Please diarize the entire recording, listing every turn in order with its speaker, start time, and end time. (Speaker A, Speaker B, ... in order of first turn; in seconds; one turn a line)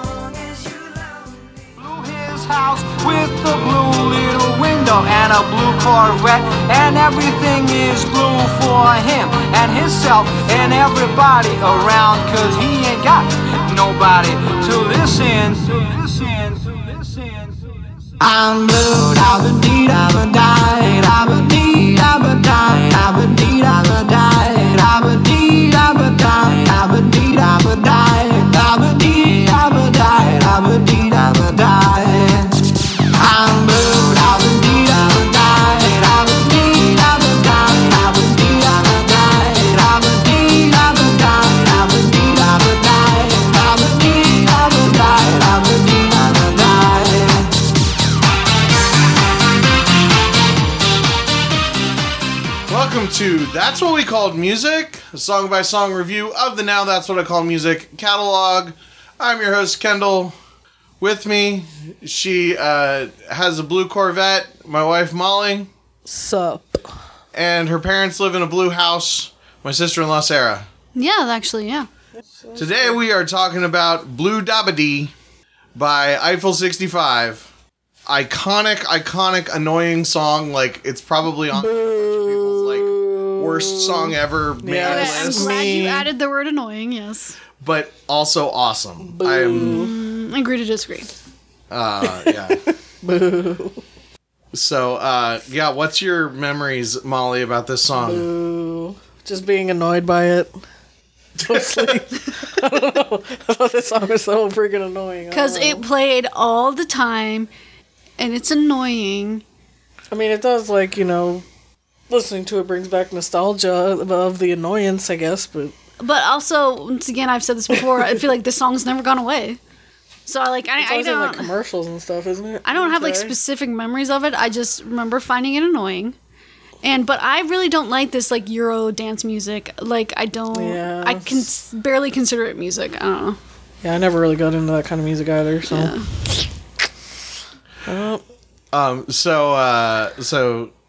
Speaker A: 0.2-0.7
Speaker A: 1.8-17.5
Speaker A: 18.2-32.6
Speaker A: 33.1-47.5
Speaker B: 52.7-60.3
Speaker B: 61.0-65.7
Speaker C: 66.0-66.9
Speaker B: 67.3-70.7
Speaker D: 70.9-71.9
Speaker C: 72.2-73.0
Speaker B: 72.6-75.1
Speaker B: 75.8-77.5
Speaker B: 78.1-85.8
Speaker C: 81.6-86.1
Speaker D: 84.8-87.4
Speaker B: 87.6-89.9
Speaker C: 89.0-89.9
Speaker D: 89.5-91.1
Speaker B: 91.7-92.6
Speaker C: 92.0-93.8
Speaker B: 94.5-98.3
Speaker C: 98.0-100.5
Speaker C: 101.4-105.8
Speaker D: 105.3-107.5
Speaker D: 108.2-109.4
Speaker C: 110.1-111.4
Speaker C: 112.1-115.7
Speaker D: 116.0-119.6
Speaker C: 117.7-118.2
Speaker D: 120.3-121.5
Speaker C: 120.8-123.3
Speaker D: 122.6-126.1
Speaker D: 126.8-133.4
Speaker C: 130.5-131.4
Speaker C: 133.8-135.9
Speaker D: 135.7-136.1
Speaker C: 137.8-138.2
Speaker B: 138.7-140.7